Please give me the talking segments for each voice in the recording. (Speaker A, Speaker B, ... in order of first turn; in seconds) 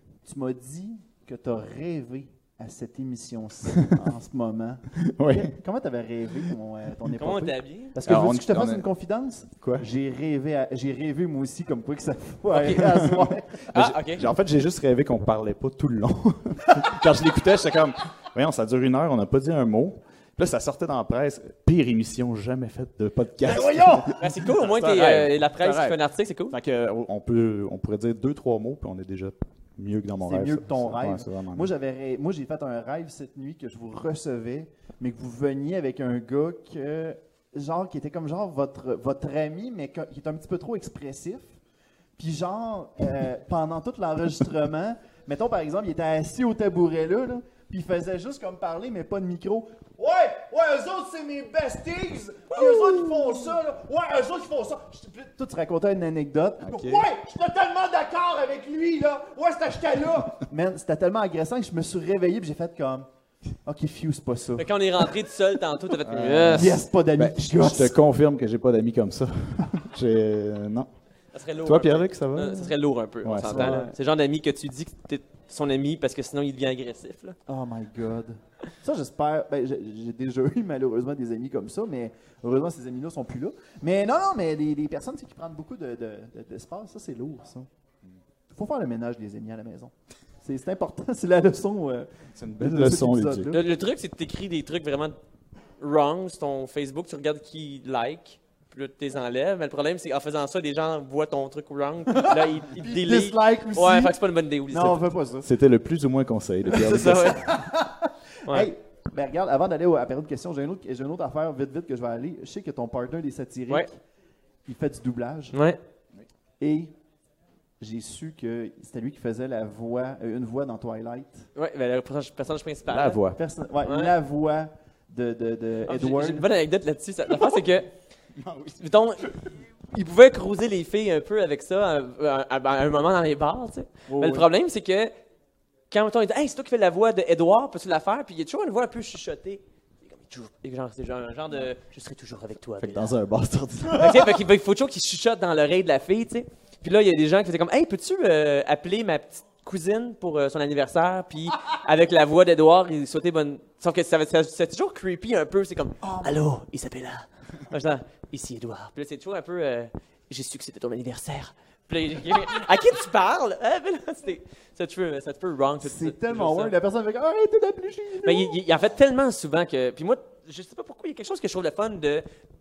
Speaker A: 0.2-13.7, 23.4-24.1, 30.2-41.5, 42.2-63.0, 63.6-65.1, 66.5-68.0, 73.5-73.9, 77.5-87.7, 88.5-89.9, 90.4-93.6, 102.1-104.2, 104.7-105.5, 106.8-113.9, 114.7-115.5, 116.6-116.9, 117.8-121.5, 123.3-126.5, 134.1-134.5, 156.0-156.3, 165.8-168.6
Speaker B: 5.0-5.5, 8.0-8.8, 9.6-9.9, 13.0-26.0, 26.5-31.7, 56.6-57.0, 66.0-70.9, 71.6-73.8, 92.3-93.6, 105.4-107.5, 122.9-123.4, 128.4-128.8, 142.8-144.3
Speaker C: 7.1-7.9, 12.5-12.8, 13.7-14.3, 24.1-26.6, 52.9-53.4, 64.6-66.7, 71.3-77.3, 93.5-95.1, 95.8-105.0, 106.7-107.5, 115.5-115.8, 121.5-123.2, 123.8-124.1, 125.9-127.9, 128.8-129.3, 129.9-135.1, 135.9-143.1, 143.9-166.7, 168.2-172.2